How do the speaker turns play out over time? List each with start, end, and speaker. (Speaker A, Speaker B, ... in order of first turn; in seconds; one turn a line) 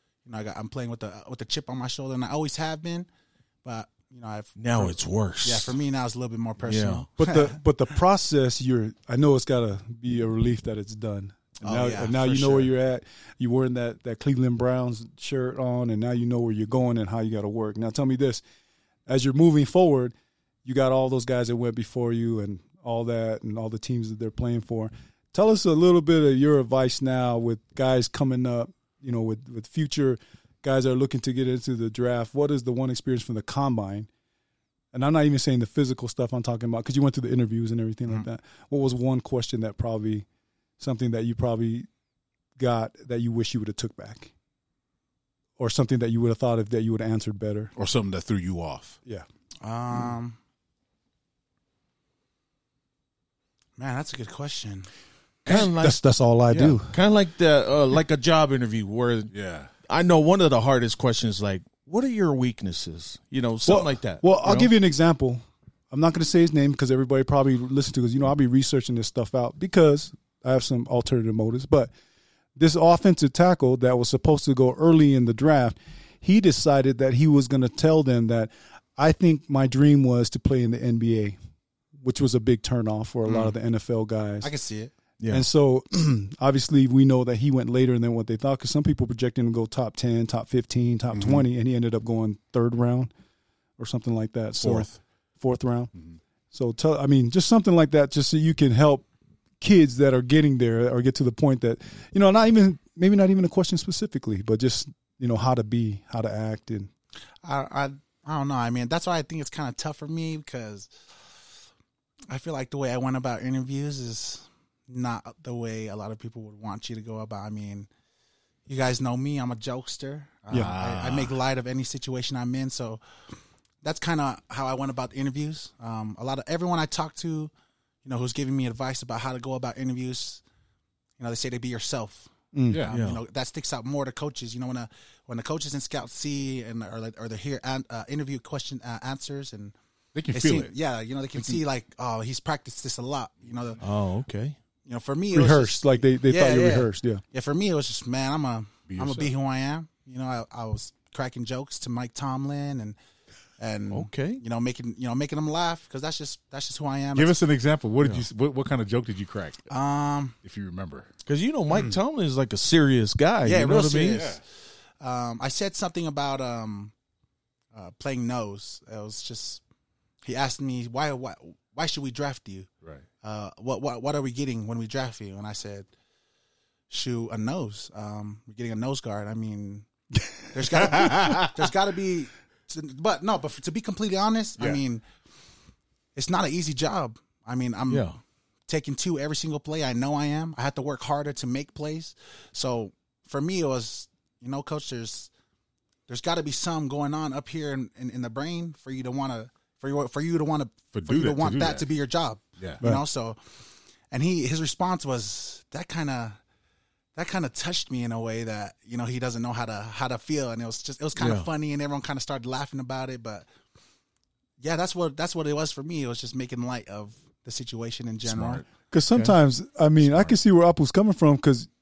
Speaker A: 0.2-3.1
Speaker A: 3.6-7.6
Speaker B: 4.6-5.8
Speaker B: 6.6-7.0
Speaker C: 7.2-18.4
Speaker A: 11.6-12.7
Speaker C: 19.1-34.1
Speaker C: 34.9-40.2
Speaker C: 40.8-41.9
Speaker C: 42.6-44.3
Speaker C: 45.6-47.7
Speaker D: 47.8-49.0
Speaker A: 49.6-50.4
Speaker A: 53.8-54.9
Speaker C: 55.5-56.9
Speaker B: 55.5-59.3
Speaker D: 59.3-59.7
Speaker B: 59.9-64.7
Speaker C: 63.6-71.9
Speaker C: 72.5-81.4
Speaker C: 82.0-84.5
Speaker A: 84.4-84.9
Speaker B: 85.2-85.5
Speaker C: 85.3-93.1
Speaker D: 91.1-91.4
Speaker C: 93.8-95.9
Speaker D: 94.6-94.9
Speaker C: 96.5-99.0
Speaker C: 99.6-106.9
Speaker A: 107.4-110.9
Speaker A: 112.3-117.9
Speaker A: 118.7-123.0
Speaker D: 120.5-121.3
Speaker A: 123.8-127.5
Speaker A: 128.0-130.4
Speaker A: 131.2-132.3
Speaker C: 132.5-132.8
Speaker D: 132.7-132.9
Speaker A: 132.9-139.7
Speaker B: 132.9-133.2
Speaker D: 140.1-140.8
Speaker A: 140.3-143.8
Speaker D: 141.3-141.6
Speaker B: 143.8-144.6
Speaker A: 144.8-153.0
Speaker C: 145.3-147.2
Speaker D: 148.9-149.3
Speaker A: 153.6-157.4
Speaker B: 153.9-154.4
Speaker D: 157.1-159.7
Speaker A: 159.7-160.4
Speaker D: 160.4-161.1
Speaker B: 161.3-164.3
Speaker A: 163.4-164.4
Speaker D: 164.1-164.4
Speaker A: 165.0-166.9
Speaker A: 167.7-169.6
Speaker A: 170.2-172.7
Speaker A: 173.2-175.9
Speaker A: 176.9-179.9
Speaker A: 180.5-185.0
Speaker D: 180.8-181.5
Speaker A: 186.1-188.1
Speaker B: 187.9-188.2
Speaker A: 188.7-195.3
Speaker A: 196.1-203.4
Speaker D: 200.9-201.9
Speaker A: 204.1-206.4
Speaker A: 207.1-213.5
Speaker B: 211.2-211.5
Speaker A: 214.6-218.6
Speaker D: 218.3-218.7
Speaker C: 218.9-221.7
Speaker D: 220.0-220.3